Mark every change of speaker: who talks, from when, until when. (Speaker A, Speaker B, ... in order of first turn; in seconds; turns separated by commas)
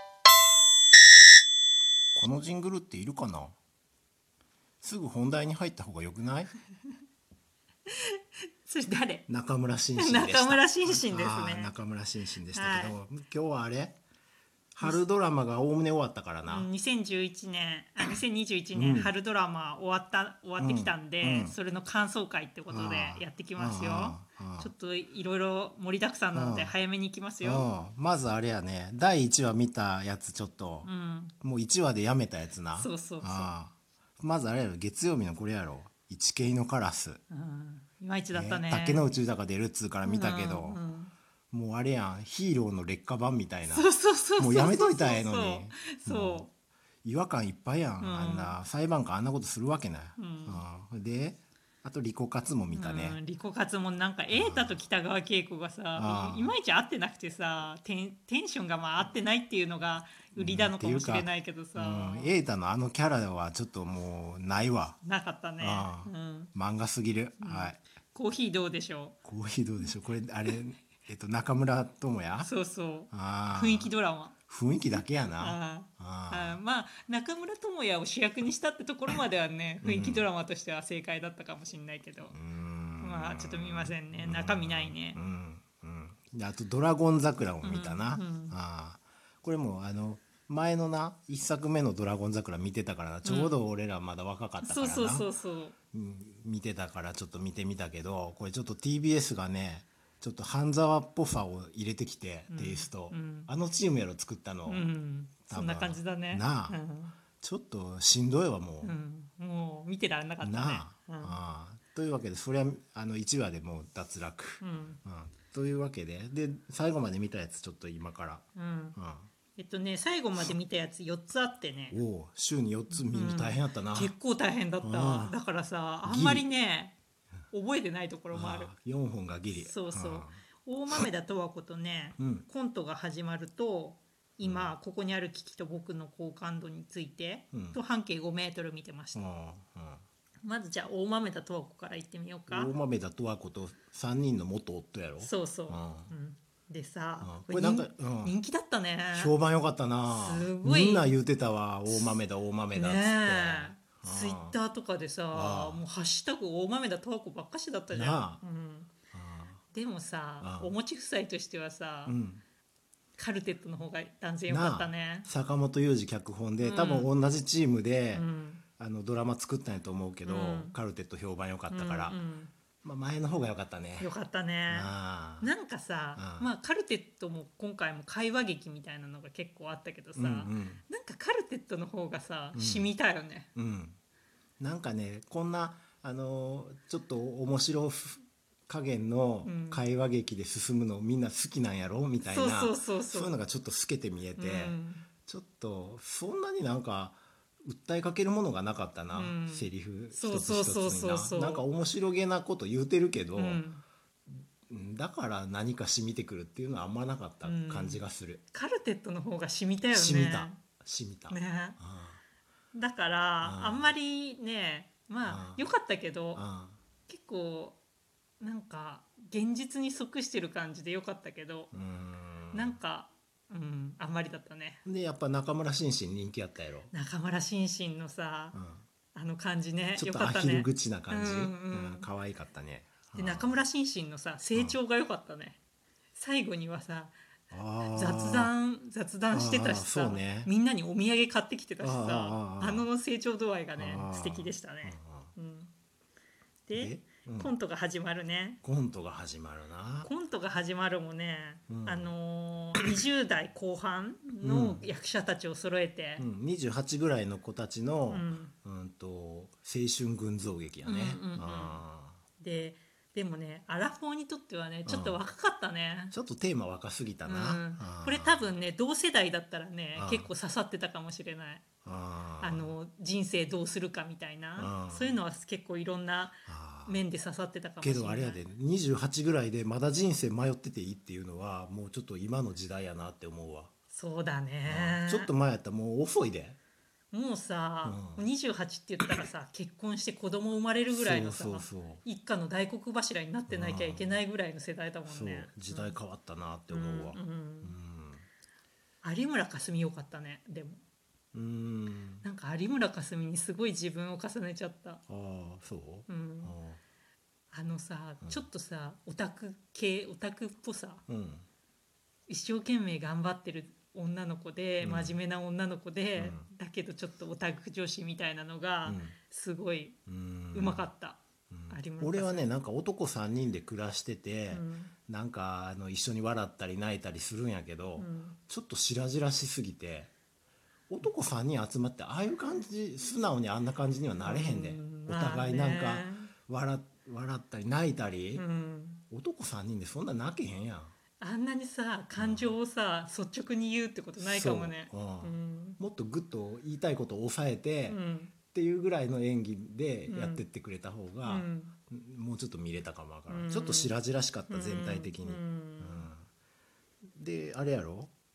Speaker A: 2.2-3.5, Speaker A: 4.8-6.5, Speaker B: 7.9-9.3, Speaker A: 9.3-14.0, Speaker B: 9.9-11.8, Speaker B: 12.5-13.0, Speaker A: 14.8-16.7, Speaker B: 14.8-15.2, Speaker B: 16.5-27.7, Speaker A: 18.7-19.1, Speaker A: 20.6-21.6, Speaker A: 22.7-24.7, Speaker A: 26.3-26.8, Speaker A: 27.4-37.2, Speaker B: 30.8-31.3, Speaker B: 32.8-33.6, Speaker B: 37.3-39.1, Speaker A: 38.3-40.8, Speaker B: 40.0-41.1, Speaker A: 41.5-46.5, Speaker B: 43.7-46.5, Speaker A: 47.0-53.2, Speaker B: 48.0-48.6, Speaker B: 50.2-51.0, Speaker B: 52.7-62.5, Speaker A: 54.3-54.9, Speaker A: 55.9-56.6, Speaker A: 60.1-65.0, Speaker B: 65.0-66.5, Speaker A: 65.6-67.8, Speaker B: 67.4-69.2, Speaker A: 69.2-72.5, Speaker B: 69.9-70.7, Speaker B: 72.4-82.4, Speaker A: 73.1-76.6, Speaker A: 79.8-80.3, Speaker A: 82.3-95.3, Speaker B: 83.0-85.3, Speaker B: 87.6-88.6, Speaker B: 93.2-96.7, Speaker A: 95.9-109.0, Speaker B: 101.3-101.8, Speaker B: 102.5-103.5, Speaker B: 104.3-108.2, Speaker B: 108.8-114.1, Speaker A: 110.4-119.3, Speaker B: 114.6-115.2, Speaker B: 115.8-117.8, Speaker B: 118.6-119.0, Speaker B: 119.6-126.9, Speaker A: 121.8-124.2, Speaker A: 124.8-125.4, Speaker A: 126.0-126.5, Speaker B: 127.5-139.9, Speaker A: 128.3-131.1, Speaker A: 132.2-132.5, Speaker A: 134.4-134.7, Speaker A: 137.4-137.8, Speaker A: 139.1-140.0, Speaker B: 140.4-143.0, Speaker A: 142.5-146.1, Speaker B: 143.6-144.0, Speaker B: 145.2-149.4, Speaker A: 147.2-148.4, Speaker A: 149.1-154.6, Speaker B: 150.1-151.2, Speaker B: 151.9-158.9, Speaker A: 155.3-155.9, Speaker A: 157.9-159.7, Speaker B: 159.7-162.2, Speaker A: 160.4-160.8, Speaker A: 162.1-162.4, Speaker B: 163.2-165.4, Speaker A: 164.5-172.2, Speaker B: 166.6-169.6, Speaker B: 170.2-172.9, Speaker A: 172.8-174.1, Speaker B: 174.0-183.5, Speaker A: 174.7-175.5, Speaker A: 176.2-176.5, Speaker A: 180.2-180.9, Speaker A: 182.5-182.9, Speaker A: 183.5-184.0, Speaker A: 184.6-203.7, Speaker B: 189.4-189.9, Speaker B: 192.2-196.2, Speaker B: 199.1-201.8, Speaker B: 203.3-203.8, Speaker A: 204.7-208.4, Speaker B: 205.9-206.4, Speaker B: 207.1-211.8, Speaker A: 209.8-212.2, Speaker B: 212.7-216.5, Speaker A: 213.4-214.0, Speaker A: 214.9-215.7, Speaker A: 216.3-216.8, Speaker B: 217.1-217.8, Speaker B: 218.4-221.8, Speaker A: 221.7-222.8, Speaker B: 222.5-225.0, Speaker A: 224.8-226.9, Speaker B: 226.9-228.6, Speaker A: 228.5-228.9, Speaker B: 229.1-235.6, Speaker A: 229.9-233.6, Speaker B: 236.2-237.1, Speaker A: 237.5-238.5, Speaker B: 237.9-245.7, Speaker A: 239.3-240.5, Speaker A: 241.8-242.9, Speaker A: 243.8-245.3, Speaker B: 246.7-248.6, Speaker A: 246.7-247.6, Speaker A: 248.6-250.4, Speaker B: 250.0-256.8, Speaker A: 251.6-252.2, Speaker A: 254.4-255.0, Speaker A: 256.2-262.2, Speaker B: 258.1-258.7, Speaker B: 260.8-261.8, Speaker B: 262.4-266.2, Speaker A: 264.8-265.3, Speaker A: 266.1-268.6, Speaker B: 267.3-271.7, Speaker A: 269.9-270.3, Speaker A: 271.8-272.8, Speaker B: 272.4-278.6, Speaker A: 274.6-275.2, Speaker A: 276.5-277.1, Speaker A: 277.8-283.7, Speaker B: 283.9-285.3, Speaker A: 284.6-286.6, Speaker B: 287.1-296.1, Speaker A: 287.8-288.3, Speaker A: 289.0-289.3, Speaker A: 290.9-292.1, Speaker A: 293.5-294.2, Speaker A: 295.1-298.2, Speaker B: 296.7-297.8, Speaker B: 299.0-300.8, Speaker A: 301.3-302.3, Speaker B: 302.2-305.0, Speaker A: 305.1-306.8, Speaker B: 306.1-306.6, Speaker B: 307.5-311.0, Speaker A: 308.2-308.5, Speaker A: 311.1-311.4, Speaker B: 312.3-320.0, Speaker A: 314.8-315.2, Speaker A: 316.2-316.5, Speaker A: 318.9-319.3, Speaker A: 320.1-320.9, Speaker B: 320.5-321.2, Speaker A: 321.5-330.1, Speaker B: 321.7-322.6, Speaker B: 324.5-324.9, Speaker B: 328.0-328.6, Speaker A: 330.9-338.5, Speaker B: 332.7-333.3, Speaker B: 334.2-336.3, Speaker B: 338.4-339.2, Speaker A: 339.0-340.9, Speaker B: 341.2-345.9, Speaker A: 342.1-342.6, Speaker A: 344.2-356.2, Speaker B: 347.9-348.4, Speaker B: 350.1-350.6, Speaker B: 351.3-352.2, Speaker B: 353.3-356.1, Speaker A: 357.2-358.1